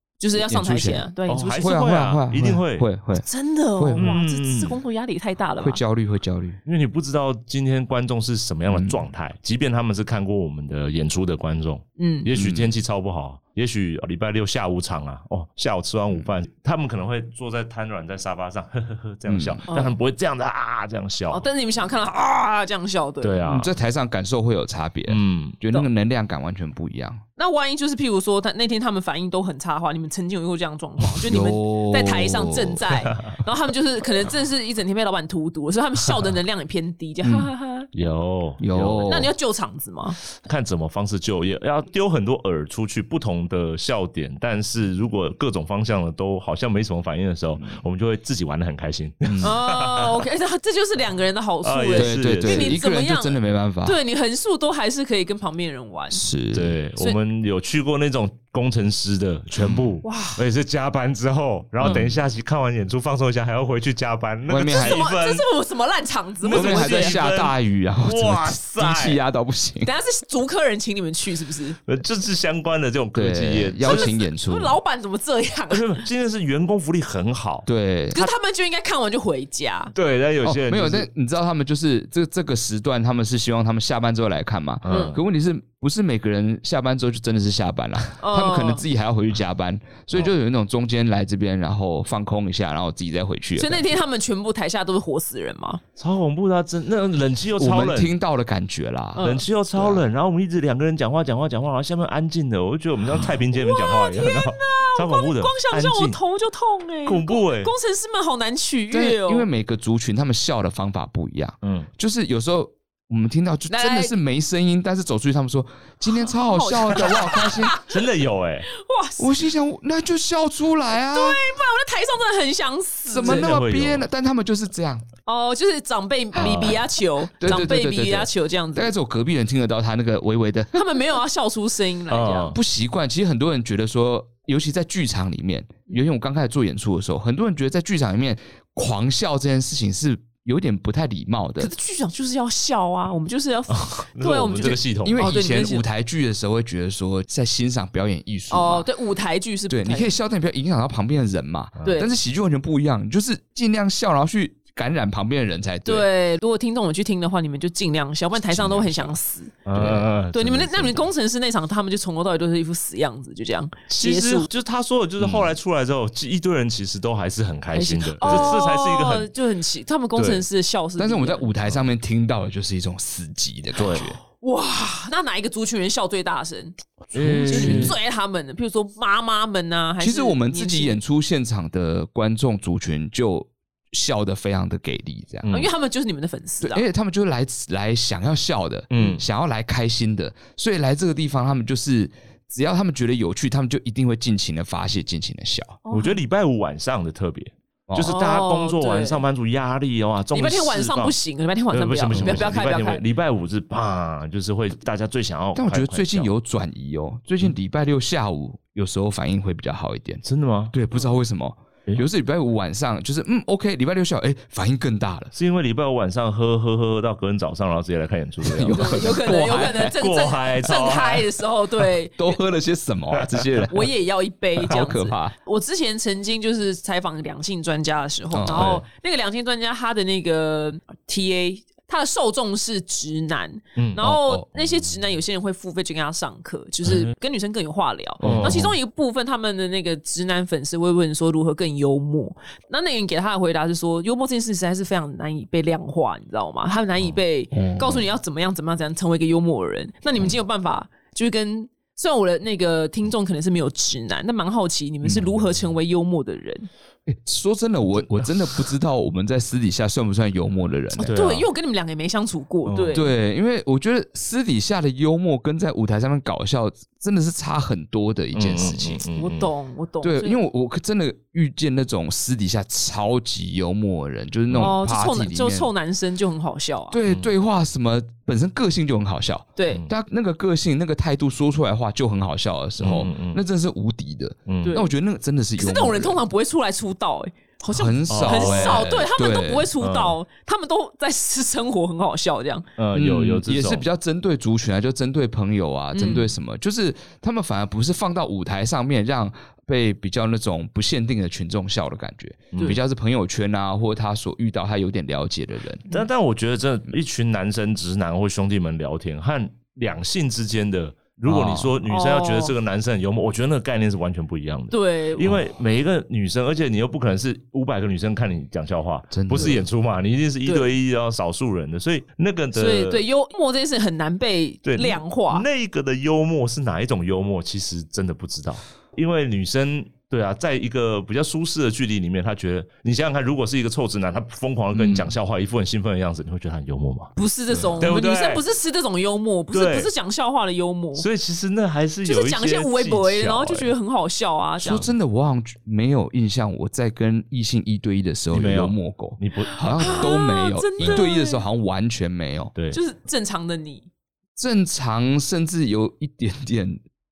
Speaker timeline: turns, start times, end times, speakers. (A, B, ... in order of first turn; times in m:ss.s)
0:00.2-0:01.8 A
0:00.3-0:01.1 B
0:01.3-0:02.9 C
0:01.6-0:03.2 B
0:03.2-0:05.8 A
0:03.8-0:04.2 B
0:04.0-0:04.8 C
0:05.6-0:06.6 B
0:06.6-0:21.5 C
0:08.7-0:09.0 B
0:12.0-0:12.3 A
0:12.3-0:12.7 B
0:19.3-0:19.6 B
0:21.3-0:23.4 A
0:23.2-0:23.7 C
0:23.4-0:27.2 B
0:25.1-0:25.6 C
0:27.4-0:37.9 A
0:31.3-0:32.8 B
0:37.2-0:37.5 B
0:37.9-0:39.2 C
0:38.6-0:39.3 B
0:39.0-0:40.2 A
0:40.4-0:50.2 C
0:49.4-0:56.2 A
0:51.6-0:52.8 C
0:51.9-0:54.0 B
0:56.1-0:56.8 B
0:56.5-1:05.4 C
0:59.6-0:59.9 B
1:00.0-1:00.4 A
1:01.8-1:02.1 B
1:04.5-1:05.0 B
1:04.6-1:07.2 A
1:06.4-1:09.2 C
1:06.5-1:09.9 B
1:09.8-1:11.8 A
1:11.8-1:14.1 C
1:13.1-1:14.8 B
1:13.8-1:16.0 A
1:15.7-1:17.7 C
1:17.6-1:18.3 B
1:18.1-1:19.9 A
1:19.9-1:21.1 C
1:20.4-1:33.8 B
1:24.8-1:25.2 C
1:24.9-1:25.2 A
1:28.2-1:28.8 A
1:33.6-1:35.8 A
1:36.0-1:38.1 C
1:37.6-1:40.0 B
1:39.2-1:39.4 A
1:39.2-1:46.2 C
1:43.5-1:49.5 A
1:47.0-1:47.7 C
1:48.9-1:57.8 B
1:51.6-1:51.9 C
1:53.7-1:54.1 A
1:56.1-1:58.1 A
1:57.8-1:58.7 C
1:58.7-1:59.3 A
1:59.2-2:01.4 B
2:01.1-2:03.5 A
2:03.1-2:05.0 B
2:03.2-2:04.1 C
2:05.2-2:08.9 A
2:06.4-2:06.8 B
2:06.4-2:06.8 C
2:07.4-2:10.8 B
2:10.7-2:12.5 A
2:12.1-2:12.6 C
2:12.5-2:21.7 B
2:21.6-2:25.8 A
2:23.7-2:25.3 C
2:25.0-2:28.9 B
2:28.5-2:30.1 A
2:29.7-2:36.1 B
2:31.8-2:32.1 A
2:35.8-2:39.7 A
2:38.6-2:39.0 B
2:39.6-2:41.0 C
2:39.7-2:40.0 B
2:40.3-2:44.5 A
2:43.9-2:49.3 C
2:45.2-2:45.5 B
2:47.7-2:51.5 A
2:48.2-2:48.6 B
2:50.2-2:50.4 C
2:51.0-2:54.2 B
2:53.8-2:54.1 C
2:54.3-3:01.0 A
2:57.1-2:58.0 C
2:57.1-2:58.0 B
3:00.0-3:05.5 B
3:05.4-3:05.7 C
3:05.5-3:06.8 A
3:06.6-3:15.8 B
3:08.9-3:09.2 C
3:15.8-3:16.2 A
3:15.9-3:21.2 C
3:17.9-3:18.1 B
3:18.0-3:19.2 A
3:20.3-3:23.0 A
3:21.7-3:26.3 C
3:22.1-3:22.5 B
3:25.5-3:35.3 B
3:30.2-3:30.7 C
3:35.3-3:41.3 C
3:38.4-3:39.9 B
3:38.7-3:42.4 A
3:42.2-3:43.9 B
3:43.7-4:16.7 A
3:44.6-3:45.3 B
3:48.3-3:48.8 B
3:48.5-3:48.8 C
3:53.8-3:54.0 C
3:54.0-3:54.5 B
3:56.8-3:57.1 C
3:58.2-3:58.7 B
3:58.2-3:58.7 C
4:07.5-4:08.0 B
4:15.0-4:15.4 C
4:17.1-4:21.2 B
4:21.0-4:23.1 A
4:21.0-4:21.5 C
4:22.6-4:23.0 C
4:22.9-4:29.0 B
4:28.3-4:29.5 C
4:29.1-4:30.4 A
4:30.0-4:35.7 B
4:34.5-4:34.8 C
4:34.6-4:37.0 A
4:36.9-4:46.2 B
4:37.0-4:37.3 C
4:39.6-4:39.8 A
4:42.8-4:43.4 C
4:44.5-4:44.8 C
4:44.6-4:44.9 A
4:45.6-4:52.7 A
4:47.7-4:49.7 B
4:48.1-4:49.0 C
4:49.8-4:50.2 C
4:52.8-4:53.8 C
4:52.9-5:05.8 B
4:55.9-4:56.3 A
5:02.5-5:02.8 C
5:05.9-5:23.0 C
5:11.2-5:11.8 B
5:11.8-5:12.5 A
5:14.7-5:15.4 A
5:19.1-5:19.7 B
5:22.5-5:25.4 A
5:24.6-5:37.1 C
5:34.7-5:35.1 B
5:37.2-5:41.0 A
5:37.7-5:38.4 C
5:39.5-5:39.9 C
5:41.0-5:43.7 C
5:42.0-5:44.9 A
5:44.6-5:52.5 B
5:48.3-5:50.2 C
5:49.6-5:51.4 A
5:50.8-5:51.0 C
5:52.5-5:52.8 C
5:52.7-5:53.9 A
5:54.4-5:56.8 B